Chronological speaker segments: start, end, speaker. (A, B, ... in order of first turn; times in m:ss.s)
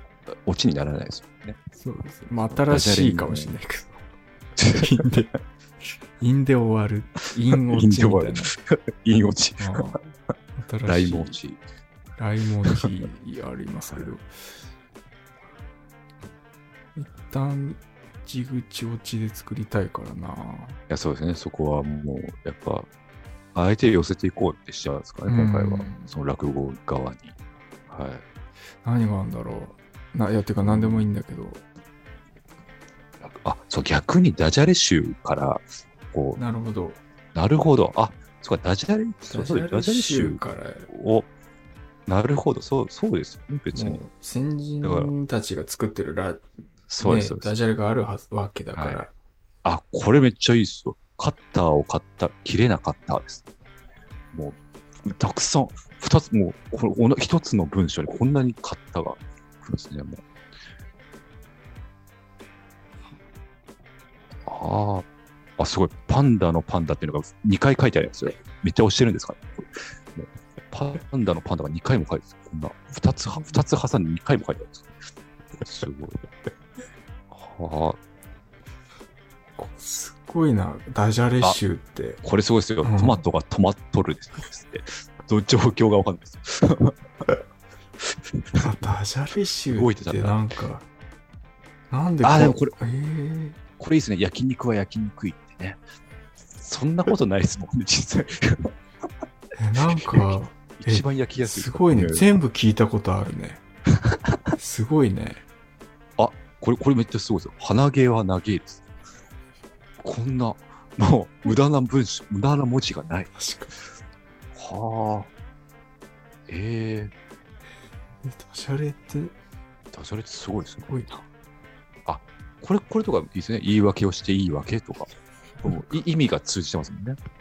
0:00.3-0:01.6 A
0:01.8-0:04.0 B
0:02.4-0:03.5 A
0:04.6-0:05.1 A
0:04.7-0:05.3 B
0:06.2-0:08.5 B
0:07.7-0:10.0 A
0:09.6-0:11.4 B
0:10.8-0:11.6 A
0:12.2-0:14.3 B
0:17.0-0:20.8 B
0:20.9-0:22.9 A
0:23.5-0:27.3 A
0:25.3-0:26.1 B
0:27.9-0:28.2 A
0:28.8-0:31.6 B
0:30.6-0:31.1 A
0:33.2-0:36.4 A
0:36.4-0:37.0 B
0:37.3-0:41.3 A
0:39.3-0:40.9 B
0:42.1-0:44.0 A
0:43.7-0:46.4 B
0:44.8-0:45.1 A
0:46.9-0:47.6 A
0:47.0-0:49.1 B
0:48.7-0:49.0 A
0:49.6-0:53.4 A
0:54.3-1:00.2 A
1:04.4-1:05.0 A
1:05.6-1:15.0 A
1:15.6-1:16.2 A
1:17.3-1:18.0 A
1:19.6-1:22.2 B
1:22.2-1:27.0 A
1:22.8-1:23.2 B
1:28.6-1:30.8 B
1:29.7-1:30.4 A
1:31.9-1:33.6 B
1:32.2-1:32.8 A
1:33.8-1:35.8 A
1:36.6-1:38.7 A
1:39.6-1:43.6 B
1:39.9-1:42.3 A
1:44.0-1:44.5 A
1:44.6-1:45.4 B
1:46.2-1:48.8 A
1:50.0-1:53.3 A
1:53.4-1:53.7 B
1:54.5-1:55.3 A
1:56.5-1:57.1 A
1:58.2-1:59.3 B
1:59.9-2:01.0 A
2:00.9-2:01.2 B
2:02.0-2:05.1 A
2:05.6-2:07.2 A